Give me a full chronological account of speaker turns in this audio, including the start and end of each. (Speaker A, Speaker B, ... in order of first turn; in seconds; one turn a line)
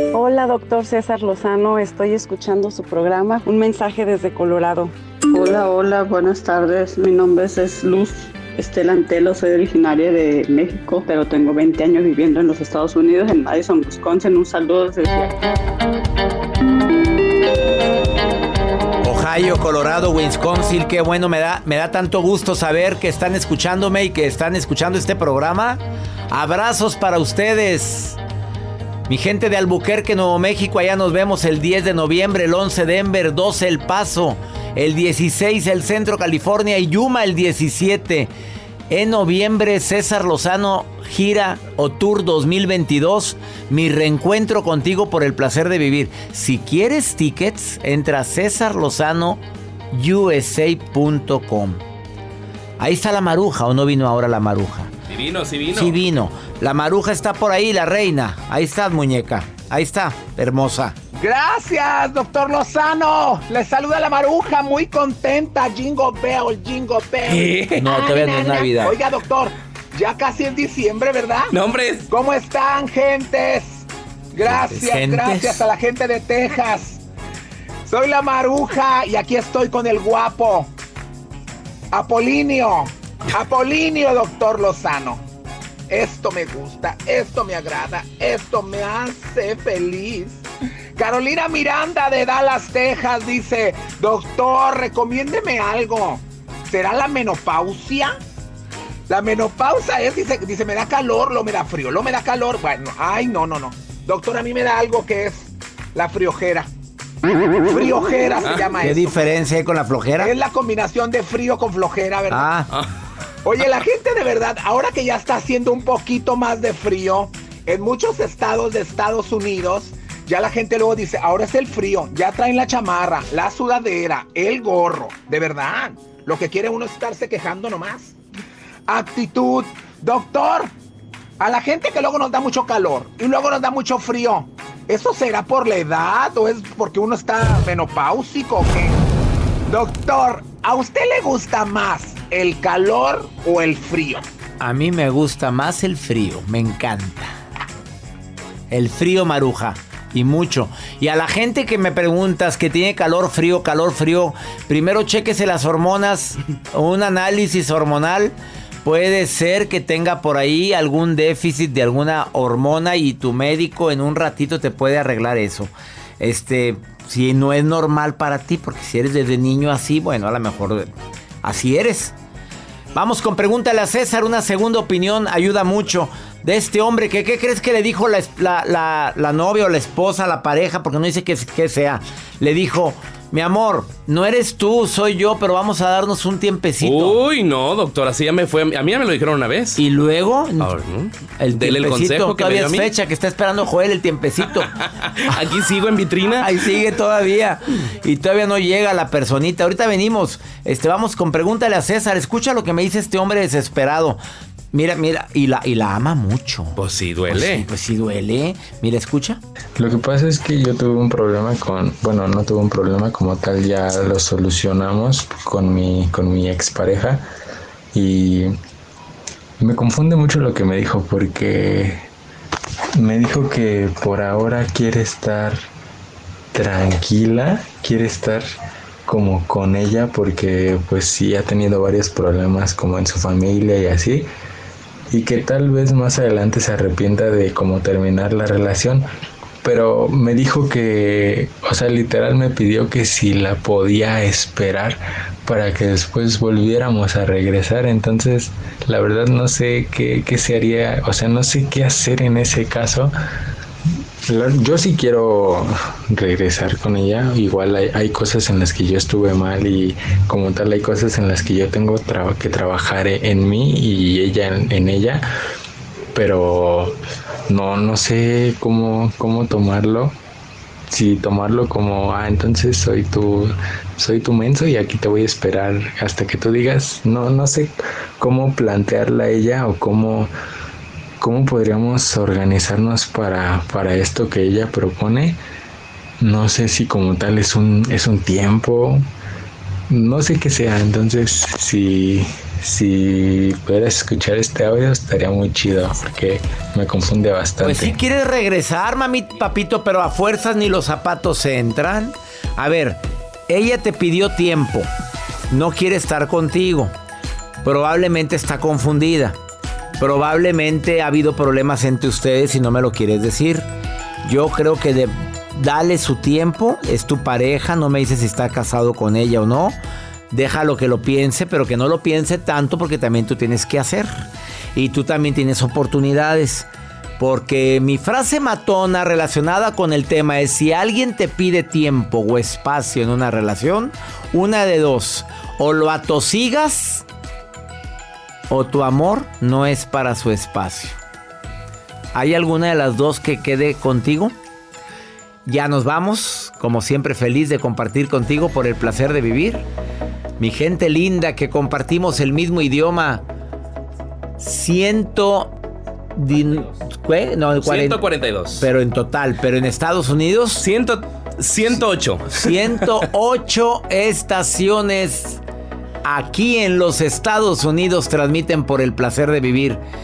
Speaker A: 0.1-4.9
Speaker B: 5.3-15.3
Speaker C: 19.0-28.2
Speaker C: 29.1-38.3
Speaker C: 38.9-49.4
Speaker C: 49.9-51.8
Speaker C: 52.8-54.9
Speaker D: 55.1-56.0
Speaker C: 55.7-61.0
Speaker E: 61.1-71.5
Speaker D: 67.2-67.9
Speaker C: 67.8-69.0
Speaker D: 71.5-72.1
Speaker E: 72.1-77.0
Speaker C: 74.4-75.7
Speaker E: 77.8-80.7
Speaker E: 81.9-85.2
Speaker E: 85.9-90.4
Speaker E: 91.0-98.1
Speaker E: 99.1-106.7
Speaker E: 107.6-109.3
Speaker D: 108.4-108.7
Speaker C: 108.8-110.3
Speaker E: 110.2-112.5
Speaker C: 112.3-112.7
Speaker E: 113.4-128.2
Speaker E: 128.9-130.7
Speaker E: 131.4-139.0
Speaker E: 139.7-144.2
Speaker C: 144.6-147.3
Speaker C: 148.7-170.9
Speaker C: 171.4-172.1
Speaker C: 172.9-187.2
Speaker D: 186.8-189.8
Speaker C: 189.8-190.8
Speaker D: 190.6-192.9
Speaker C: 191.4-194.7
Speaker D: 194.6-196.7
Speaker C: 196.4-204.2
Speaker C: 204.7-209.4
Speaker D: 206.8-207.7
Speaker F: 209.8-217.2
Speaker F: 217.9-218.5
Speaker F: 219.6-222.0
Speaker F: 223.0-225.6
Speaker F: 226.5-228.5
Speaker F: 229.1-234.3
Speaker F: 235.1-239.1
Speaker F: 239.6-253.1
Speaker F: 254.3-265.2
Speaker F: 266.1-266.9
Speaker F: 267.5-270.1
Speaker F: 270.9-280.3
Speaker F: 281.2-285.4
Speaker F: 286.2-289.0
Speaker F: 289.9-298.0
Speaker C: 297.6-304.9
Speaker C: 305.5-306.9
Speaker C: 307.6-309.4
Speaker C: 310.0-313.7
Speaker C: 314.2-319.8
Speaker C: 320.3-324.2
Speaker C: 324.7-326.7
Speaker C: 327.2-337.0
Speaker C: 338.5-341.0
Speaker C: 342.1-344.3
Speaker C: 345.4-349.6
Speaker C: 350.4-353.2
Speaker C: 354.4-355.5
Speaker C: 356.1-360.6
Speaker D: 357.6-358.7
Speaker D: 360.6-363.0
Speaker C: 362.3-365.4
Speaker C: 366.0-369.8